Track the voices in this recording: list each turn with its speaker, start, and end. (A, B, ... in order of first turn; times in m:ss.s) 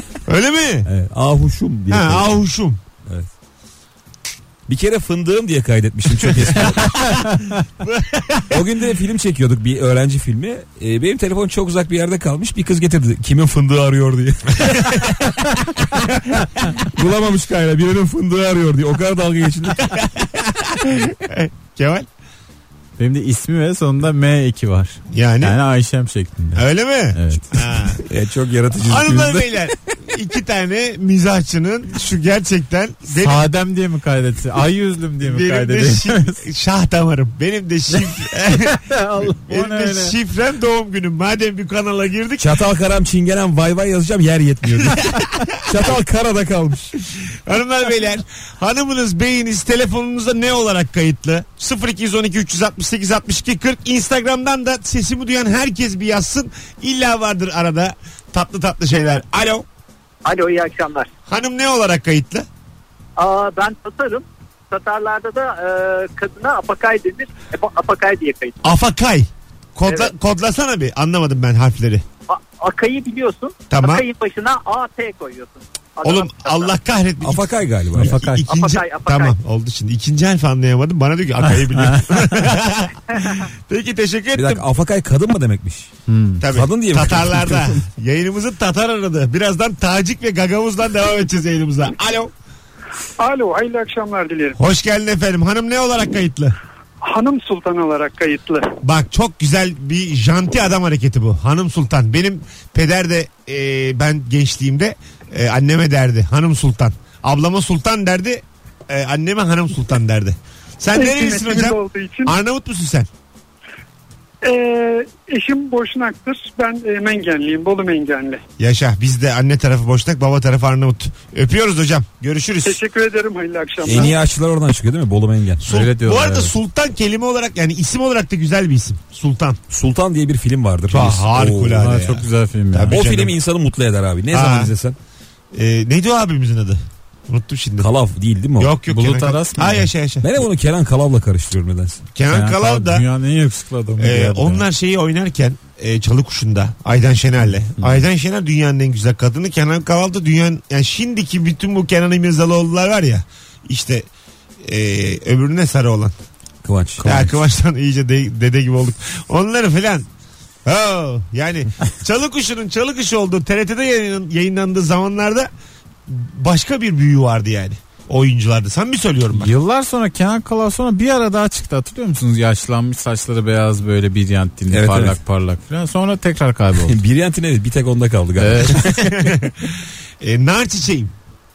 0:00.3-0:00.9 A
0:00.9-0:02.4 B
0:01.9-0:02.8 A
0:04.7-0:07.0 B
0:06.2-0:08.6 A
0:07.0-0:07.4 C
0:08.5-0:20.0 B
0:14.6-0:15.0 A
0:19.8-0:22.1 A
0:23.0-0:27.6 C
0:25.1-0:25.6 A
0:26.5-0:28.1 A
0:28.0-0:29.7 B
0:28.7-0:33.5 A
0:33.1-0:36.4 C
0:35.2-0:42.5 A
0:37.9-0:40.2 C
0:42.4-0:46.9 B
0:44.8-0:45.9 A
0:47.3-0:59.6 A
1:00.2-1:01.1 D
1:01.3-1:02.5 A
1:03.2-1:08.6 D
1:08.6-1:12.0 A
1:12.3-1:16.7 D
1:13.7-1:14.0 A
1:16.0-1:24.6 A
1:17.2-1:18.2 B
1:18.0-1:18.4 C
1:18.4-1:19.3 D
1:21.7-1:22.3 C
1:24.3-1:25.9 B
1:26.1-1:26.4 C
1:26.4-1:32.3 A
1:26.4-1:27.8 B
1:33.2-1:34.6 E
1:34.6-1:36.6 A
1:37.0-1:38.8 E
1:38.8-1:53.1 A
1:50.9-1:52.3 E
1:54.4-1:58.4 E
1:58.6-2:02.8 A
2:02.6-2:04.1 E
2:03.8-2:05.7 B
2:05.6-2:09.6 A
2:05.6-2:06.6 C
2:09.7-2:12.0 B
2:10.9-2:13.4 A
2:11.8-2:13.0 C
2:12.9-2:15.0 B
2:14.3-2:14.7 A
2:15.5-2:17.9 A
2:17.8-2:18.7 B
2:18.6-2:20.3 A
2:18.9-2:19.9 C
2:20.2-2:22.0 B
2:22.1-2:23.0 A
2:22.3-2:24.6 C
2:24.0-2:34.1 A
2:34.6-2:36.1 A
2:36.6-2:37.3 B
2:37.0-2:40.1 A
2:40.6-2:45.5 A
2:46.1-2:49.5 A
2:49.3-2:57.0 C
2:54.7-2:55.2 B
2:56.8-2:59.3 B
2:58.4-2:59.0 C
2:58.9-3:01.1 A